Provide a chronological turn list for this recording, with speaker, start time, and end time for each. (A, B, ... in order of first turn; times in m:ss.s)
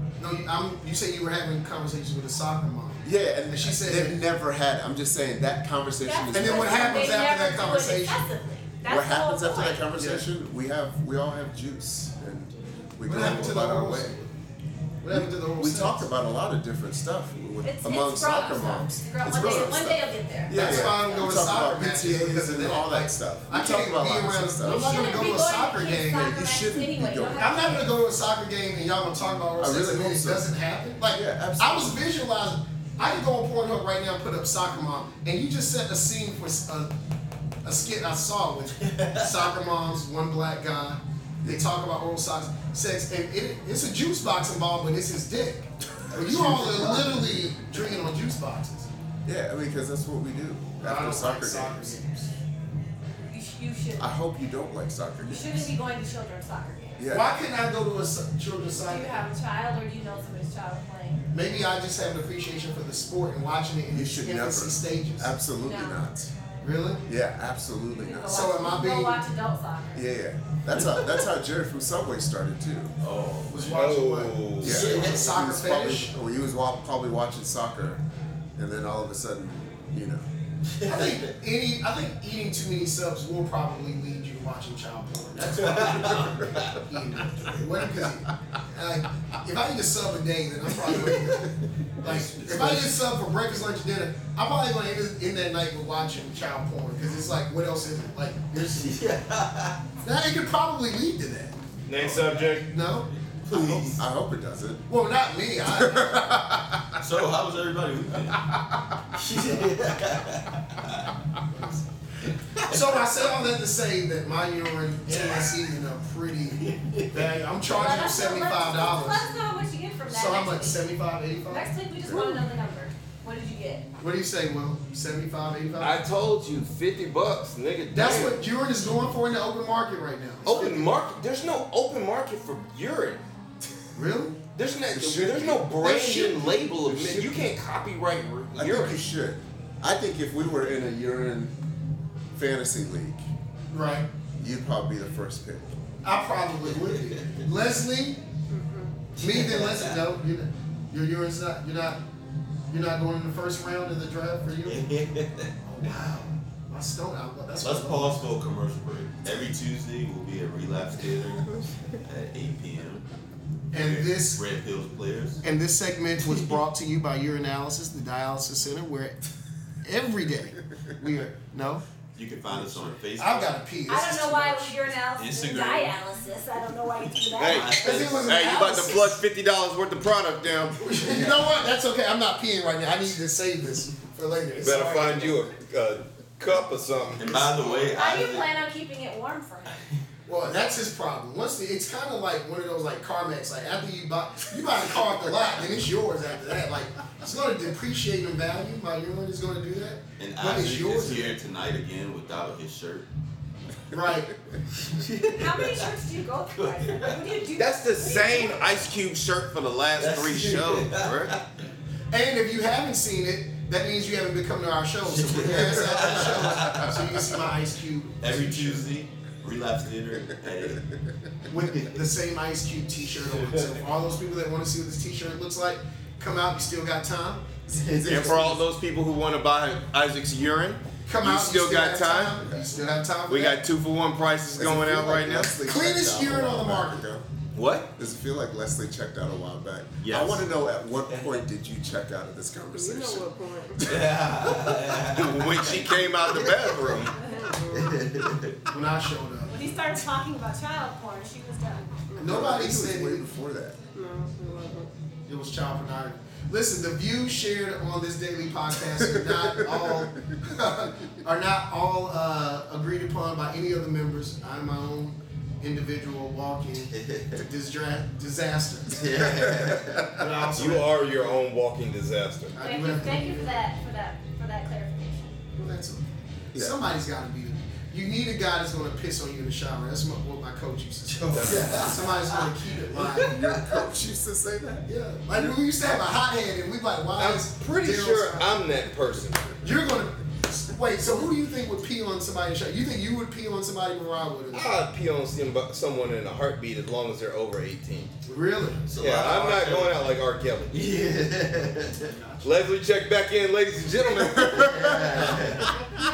0:00.2-0:04.2 A
0:03.0-0:07.4 B
0:06.0-0:09.9 C
0:06.3-0:08.2 A
0:08.8-0:14.2 B
0:10.0-0:10.2 A
0:13.0-0:14.2 A
0:15.0-0:16.1 A
0:15.1-0:25.4 B
0:17.6-0:20.9 C
0:20.5-0:26.3 A
0:24.6-0:27.9 C
0:26.1-0:27.8 B
0:27.4-0:36.9 A
0:29.6-0:30.5 B
0:31.0-0:32.0 B
0:37.6-0:48.9 A
0:38.8-0:39.3 D
0:46.1-0:47.6 B
0:49.2-0:52.0 B
0:50.8-0:52.3 A
0:53.3-0:54.1 C
0:54.0-0:55.7 B
0:55.2-0:57.1 C
0:57.0-0:57.4 B
0:57.1-0:59.2 A
0:58.9-1:01.2 C
1:01.3-1:05.3 A
1:03.9-1:06.3 B
1:05.6-1:06.0 C
1:06.6-1:07.0 A
1:07.1-1:08.6 B
1:07.9-1:10.1 C
1:08.3-1:09.2 A
1:10.0-1:12.9 B
1:13.0-1:13.8 D
1:13.5-1:16.1 A
1:13.7-1:14.9 E
1:14.6-1:18.0 B
1:14.7-1:15.3 D
1:18.6-1:20.3 B
1:20.8-1:21.2 D
1:20.8-1:39.0 A
1:25.4-1:26.8 D
1:30.9-1:31.5 D
1:32.0-1:32.9 D
1:38.7-1:39.8 D
1:40.0-1:44.0 A
1:41.9-1:42.7 E
1:42.1-1:42.5 D
1:43.3-1:44.0 D
1:43.8-1:44.9 B
1:44.9-1:46.6 A
1:45.6-1:46.6 B
1:47.0-1:48.4 D
1:49.1-1:51.1 D
1:52.2-1:53.3 D
1:52.7-1:59.2 A
1:55.1-1:55.6 D
1:56.6-1:57.3 D
1:57.7-2:00.8 C
2:00.1-2:02.2 A
2:01.5-2:03.9 C
2:02.1-2:02.4 B
2:04.0-2:06.0 A
2:05.8-2:08.4 E
2:07.9-2:10.9 A
2:10.4-2:13.2 E
2:14.0-2:14.4 A
2:14.6-2:19.0 E
2:14.9-2:15.6 B
2:15.8-2:16.4 A
2:16.9-2:17.5 B
2:18.6-2:21.5 B
2:22.3-2:23.3 B
2:23.7-2:24.1 A
2:24.4-2:25.8 B
2:26.0-2:28.2 A
2:26.9-2:27.4 D
2:28.5-2:29.1 F
2:29.2-2:30.0 D
2:29.2-2:32.0 A
2:32.7-2:34.8 A
2:34.6-2:36.1 D
2:35.6-2:38.3 A
2:37.6-2:41.5 D
2:42.0-2:43.0 D
2:43.7-2:44.4 A
2:43.7-2:45.4 D
2:45.4-2:49.2 A
2:49.8-2:51.9 A
2:52.2-2:53.6 D
2:52.5-2:54.8 A
2:53.9-2:58.2 C
2:55.2-2:55.9 D
2:57.4-3:00.8 E
2:57.4-2:58.5 D
2:57.8-2:59.2 A
3:00.8-3:05.4 A
3:04.6-3:07.5 E
3:07.2-3:08.5 D
3:07.9-3:09.8 C
3:10.3-3:21.4 A
3:20.2-3:23.1 D
3:23.9-3:24.3 A
3:24.8-3:25.9 D
3:25.3-3:28.7 C
3:26.6-3:27.2 D
3:27.6-3:31.4 E
3:30.0-3:31.4 D
3:32.1-3:38.9 A
3:35.0-3:37.0 D
3:35.9-3:37.0 B
3:38.2-3:40.8 D
3:41.5-3:47.6 A
3:41.7-3:42.0 D
3:43.1-3:43.8 D
3:47.7-3:48.6 B
3:47.8-3:48.2 D
3:48.1-3:52.4 E
3:51.1-3:53.6 A
3:53.3-3:55.6 E
3:54.5-3:57.3 B
3:55.6-3:57.0 A
3:57.6-3:57.9 E
3:58.0-4:03.3 B
4:00.0-4:00.4 E
4:02.7-4:04.7 F
4:03.8-4:06.0 D
4:05.1-4:07.1 E
4:06.9-4:08.0 F
4:07.7-4:08.6 D
4:08.7-4:09.6 A
4:09.5-4:11.9 C
4:12.1-4:12.4 F
4:12.2-4:13.3 A
4:12.2-4:13.8 B
4:14.0-4:14.9 F
4:15.3-4:29.4 A
4:19.0-4:20.4 B
4:26.9-4:27.4 D
4:28.9-4:30.2 D
4:30.0-4:31.4 A
4:30.6-4:32.6 E
4:32.5-4:33.6 A
4:32.6-4:35.4 C
4:35.6-4:43.6 A
4:36.5-4:36.8 B
4:41.2-4:42.4 D
4:41.3-4:41.8 E
4:43.2-4:45.6 B
4:43.2-4:43.6 D
4:44.9-4:48.6 A
4:47.2-4:49.6 E
4:49.6-4:54.7 A
4:54.5-4:58.1 E
4:58.3-4:58.8 A
4:58.9-5:00.0 D
4:59.0-5:00.8 E
5:00.7-5:02.2 D
5:02.4-5:05.2 E
5:04.4-5:05.2 B
5:04.5-5:05.8 D